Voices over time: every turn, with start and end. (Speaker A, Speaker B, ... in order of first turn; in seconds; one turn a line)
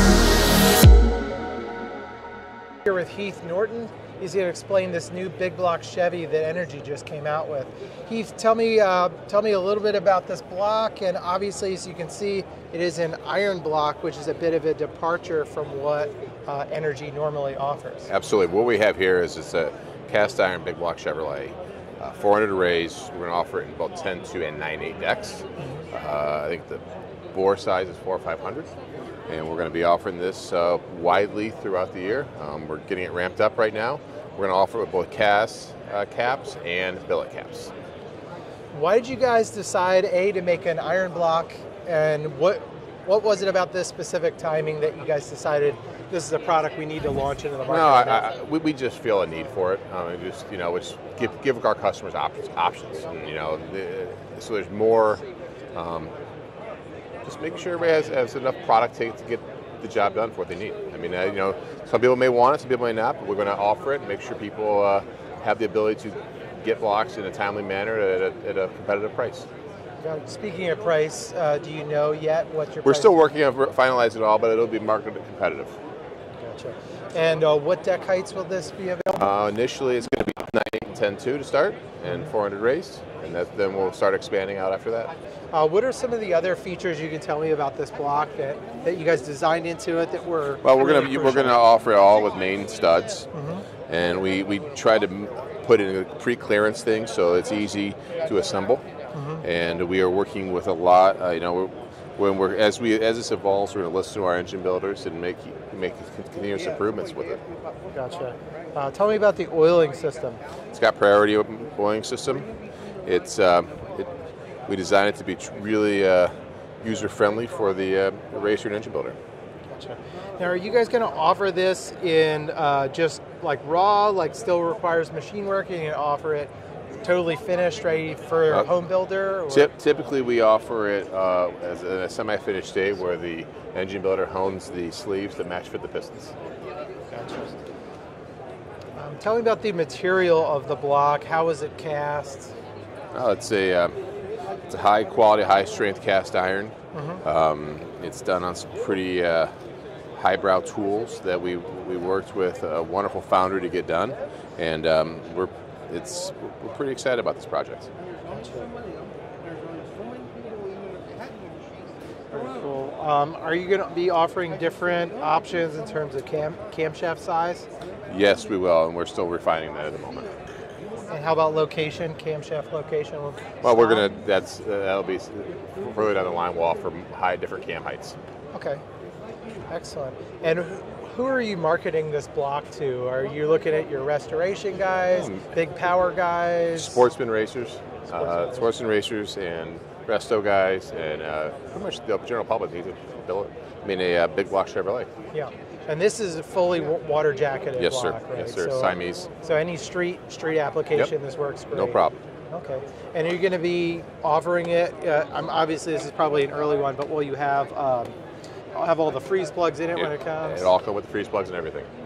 Speaker A: 2.8-18.1
Speaker B: 18.1-28.7
Speaker A: 25.6-25.8
Speaker B: 29.3-37.7
Speaker A: 38.7-48.2
Speaker B: 47.7-55.2
Speaker B: 55.7-56.1
Speaker B: 57.2-69.5
Speaker A: 70.0-73.1
Speaker B: 72.8-75.8
Speaker A: 76.4-79.3
Speaker B: 79.2-85.1
Speaker A: 85.5-91.6
Speaker B: 90.6-93.3
Speaker A: 93.3-93.7
Speaker B: 93.9-98.8
Speaker A: 99.1-99.4
Speaker B: 99.4-107.4
Speaker A: 107.9-110.4
Speaker B: 110.7-112.5
Speaker B: 113.0-114.1
Speaker B: 114.7-119.2
Speaker A: 119.7-126.5
Speaker A: 127.0-129.7
Speaker B: 129.5-136.3
Speaker A: 137.1-137.5
Speaker A: 138.9-142.5
Speaker B: 143.1-144.0
Speaker B: 144.7-149.5
Speaker A: 146.9-147.2
Speaker B: 150.2-157.9
Speaker A: 158.3-158.7
Speaker A: 162.3-167.7
Speaker B: 168.1-170.4
Speaker A: 171.1-174.1
Speaker B: 173.6-178.2
Speaker A: 178.5-178.8
Speaker A: 179.7-187.0
Speaker B: 185.1-185.4
Speaker B: 186.7-195.1
Speaker A: 188.1-188.7
Speaker A: 195.3-208.2
Speaker B: 197.8-199.3
Speaker B: 201.7-202.2
Speaker A: 208.7-210.7
Speaker B: 209.9-211.9